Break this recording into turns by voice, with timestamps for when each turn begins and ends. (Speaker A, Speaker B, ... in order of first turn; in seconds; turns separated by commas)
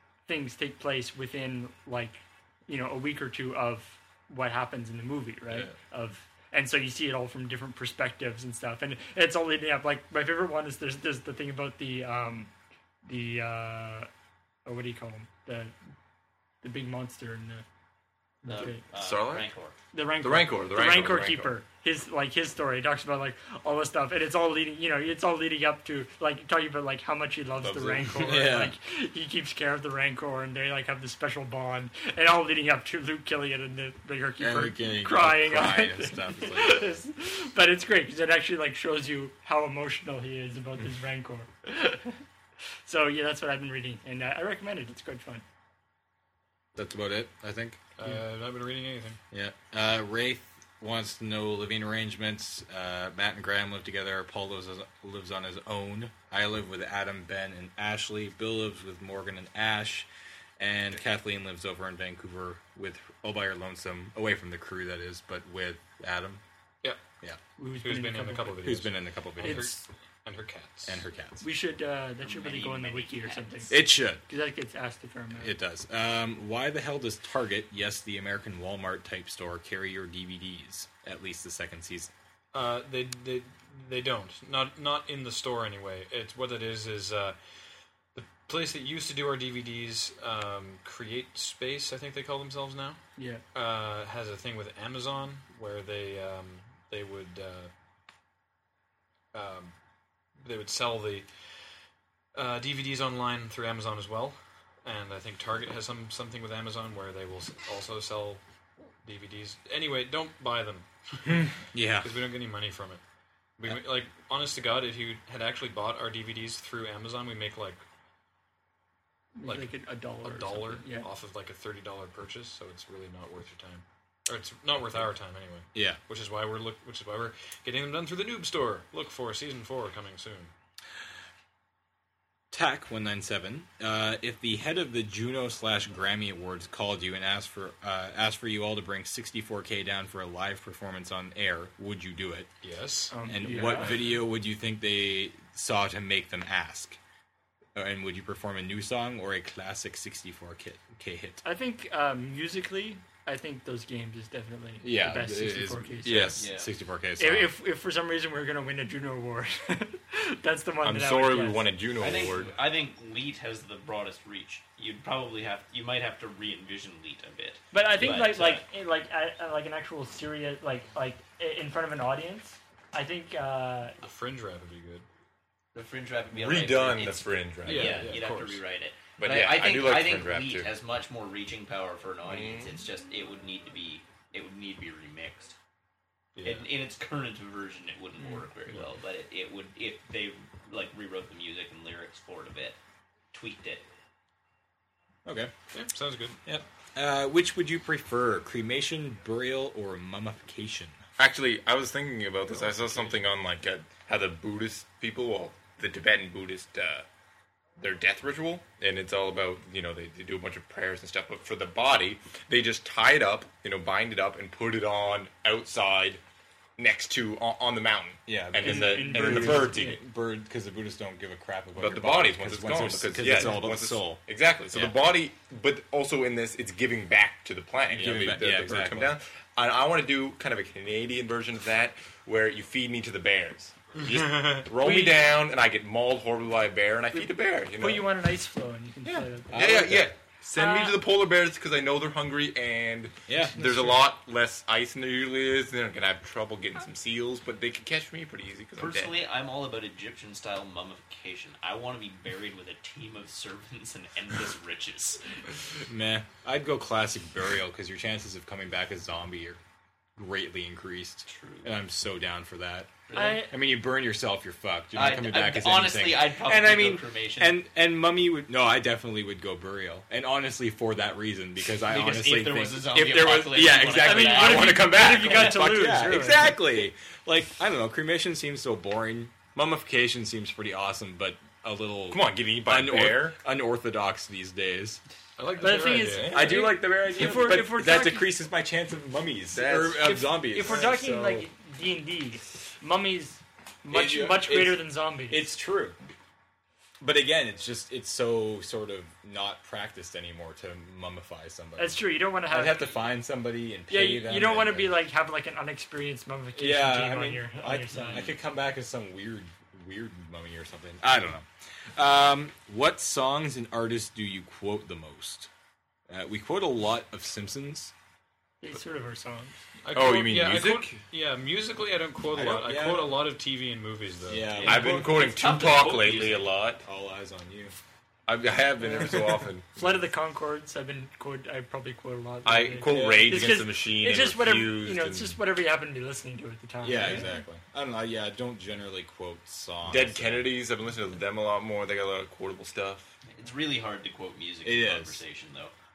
Speaker A: 0.3-12.5, Speaker A: 13.1-14.1, Speaker A: 14.7-15.7, Speaker A: 16.6-17.6, Speaker A: 18.4-18.8, Speaker B: 18.5-19.8, Speaker C: 18.6-19.5, Speaker A: 19.9-42.2, Speaker C: 20.2-21.5, Speaker D: 27.7-28.7, Speaker D: 34.4-37.0, Speaker A: 42.9-45.4, Speaker D: 46.8-47.8, Speaker E: 48.0-49.2, Speaker D: 49.3-60.1, Speaker D: 60.6-66.4, Speaker A: 67.6-68.6, Speaker E: 67.8-71.0, Speaker D: 68.6-69.8, Speaker A: 69.4-69.8, Speaker D: 70.9-71.5, Speaker A: 71.4-75.5, Speaker B: 72.2-73.8, Speaker D: 73.7-74.2, Speaker D: 75.4-82.1, Speaker E: 82.5-87.4, Speaker E: 88.2-93.0, Speaker A: 93.2-93.4, Speaker E: 93.5-97.7, Speaker E: 99.3-99.7, Speaker E: 100.4-101.3, Speaker E: 102.3-108.4, Speaker E: 109.0-113.0, Speaker D: 111.4-112.1, Speaker E: 113.6-117.8, Speaker A: 119.4-121.1, Speaker E: 119.5-130.5, Speaker D: 125.7-126.0, Speaker D: 132.5-142.5, Speaker E: 142.6-143.9, Speaker A: 143.1-144.0, Speaker D: 143.2-147.0, Speaker D: 147.8-151.4, Speaker A: 151.4-156.4, Speaker D: 154.8-157.5, Speaker C: 156.1-156.4, Speaker B: 156.4-156.7, Speaker A: 157.2-161.7, Speaker C: 160.8-162.6, Speaker B: 162.0-168.7, Speaker A: 167.7-174.0, Speaker E: 174.0-175.1, Speaker B: 175.7-185.6, Speaker C: 176.3-178.1, Speaker E: 177.6-178.6, Speaker C: 179.2-180.7, Speaker C: 182.3-182.8, Speaker E: 186.4-186.7, Speaker B: 186.4-192.8, Speaker B: 193.3-193.8, Speaker D: 195.2-195.5, Speaker E: 195.7-196.4, Speaker D: 196.5-201.0, Speaker C: 201.2-207.1, Speaker E: 202.5-203.2, Speaker C: 207.8-216.2, Speaker C: 216.8-220.0, Speaker D: 218.3-225.0, Speaker A: 218.6-220.0, Speaker C: 221.8-238.1, Speaker D: 227.9-229.2, Speaker E: 234.1-234.7, Speaker A: 234.8-235.2, Speaker A: 237.8-239.6, Speaker C: 239.1-249.2, Speaker D: 239.5-240.1, Speaker A: 240.6-241.0, Speaker D: 243.3-244.0, Speaker B: 248.8-255.2, Speaker D: 255.9-259.6, Speaker D: 260.2-285.0, Speaker B: 261.3-261.7, Speaker B: 263.1-263.5, Speaker A: 263.1-263.5, Speaker B: 264.9-267.6, Speaker B: 271.8-275.5, Speaker A: 273.9-276.6, Speaker C: 282.1-283.4, Speaker E: 285.4-286.3, Speaker A: 285.6-288.3, Speaker C: 286.1-286.7, Speaker D: 286.3-291.4, Speaker C: 289.5-291.4, Speaker A: 290.0-295.5, Speaker D: 293.9-296.0, Speaker D: 297.0-305.0, Speaker A: 301.8-302.9, Speaker A: 303.9-308.4, Speaker D: 306.6-315.5, Speaker D: 316.1-317.9, Speaker A: 318.6-319.6, Speaker E: 319.8-324.5, Speaker C: 319.9-321.0, Speaker D: 322.3-323.2, Speaker D: 324.3-325.1, Speaker B: 324.5-326.5, Speaker C: 324.6-326.8, Speaker D: 326.8-327.7, Speaker C: 328.3-329.8, Speaker A: 328.8-329.2, Speaker A: 329.7-337.3, Speaker C: 332.4-335.4, Speaker D: 332.9-333.4, Speaker D: 336.8-340.5, Speaker C: 339.9-343.2, Speaker B: 343.3-345.7, Speaker D: 344.6-345.2